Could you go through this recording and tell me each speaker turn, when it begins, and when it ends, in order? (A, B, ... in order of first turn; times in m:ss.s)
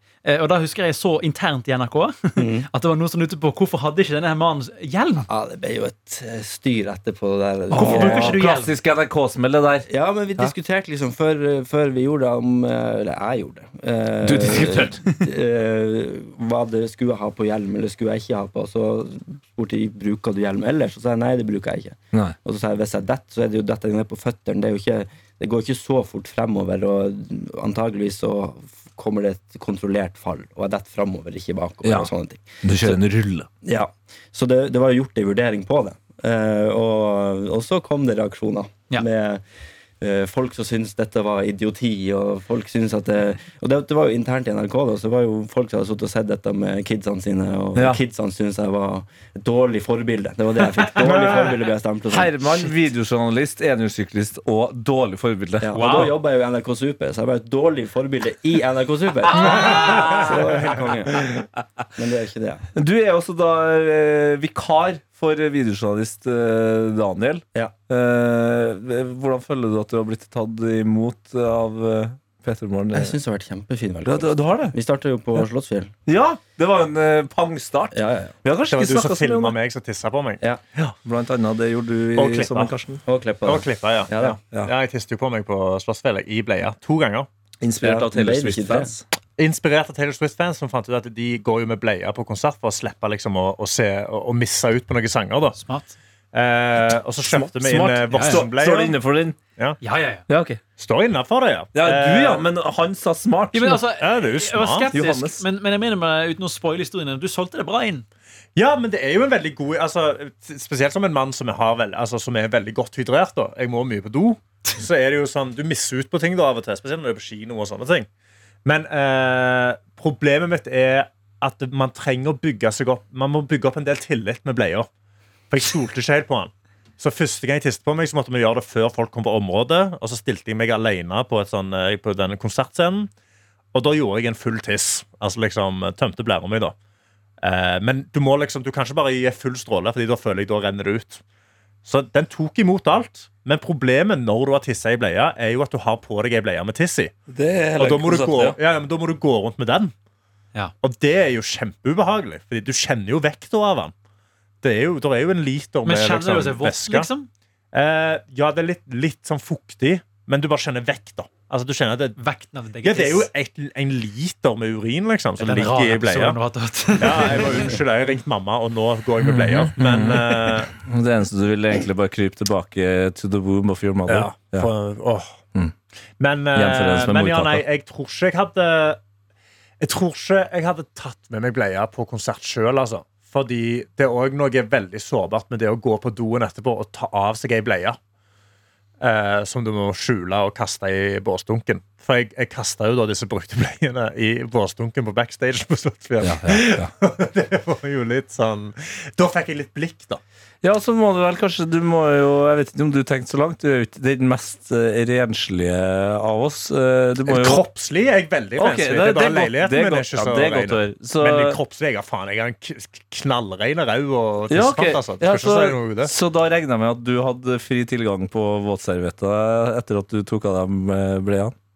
0:00.2-0:05.3 A
0:02.4-0:02.7 B
0:05.3-0:08.4 B
0:07.7-0:10.5 C
0:07.7-0:08.7 A
0:09.9-0:33.0 B
0:14.2-0:15.0 C
0:31.8-0:32.1 C
0:32.6-0:33.5 C
0:33.6-0:39.4 B
0:40.0-0:52.3 B
0:52.1-0:56.1 C
0:55.6-1:01.4 B
0:55.7-0:56.1 A
0:59.3-1:00.5 C
0:59.6-1:00.0 D
1:02.0-1:02.6 B
1:02.7-1:13.1 C
1:12.9-1:15.9 B
1:14.0-1:14.7 C
1:16.1-1:19.6 C
1:17.9-1:18.3 B
1:18.7-1:20.9 D
1:21.0-1:23.0 C
1:22.2-1:22.7 D
1:23.0-1:24.4 B
1:23.4-1:27.3 D
1:27.6-1:29.0 C
1:27.8-1:28.9 B
1:29.4-1:35.6 D
1:35.6-1:36.0 A
1:36.3-1:38.9 D
1:37.3-1:39.4 C
1:38.1-1:38.4 A
1:39.8-1:40.2 A
1:40.3-1:40.6 C
1:40.8-1:42.4 D
1:41.7-1:43.8 C
1:43.5-1:48.0 A
1:44.0-1:44.9 D
1:44.9-1:45.4 C
1:48.6-1:58.1 D
1:58.6-2:04.9 D
2:05.5-2:13.1 D
2:13.7-2:16.7 D
2:17.4-2:21.2 D
2:21.8-2:27.1 D
2:27.3-2:28.6 C
2:27.8-2:29.9 D
2:30.8-2:33.9 D
2:34.6-2:37.1 D
2:35.8-2:37.3 A
2:37.7-2:42.2 D
2:42.2-2:43.3 A
2:42.8-2:46.4 D
2:45.4-2:47.7 A
2:47.0-2:50.7 D
2:49.2-2:54.7 C
2:54.1-2:55.4 D
2:56.2-2:59.0 D
2:56.5-2:57.6 C
2:59.8-3:08.0 D
3:09.0-3:20.2 D
3:16.2-3:16.9 C
3:20.6-3:27.6 C
3:27.2-3:36.1 D
3:28.6-3:31.6 C
3:34.5-3:41.5 C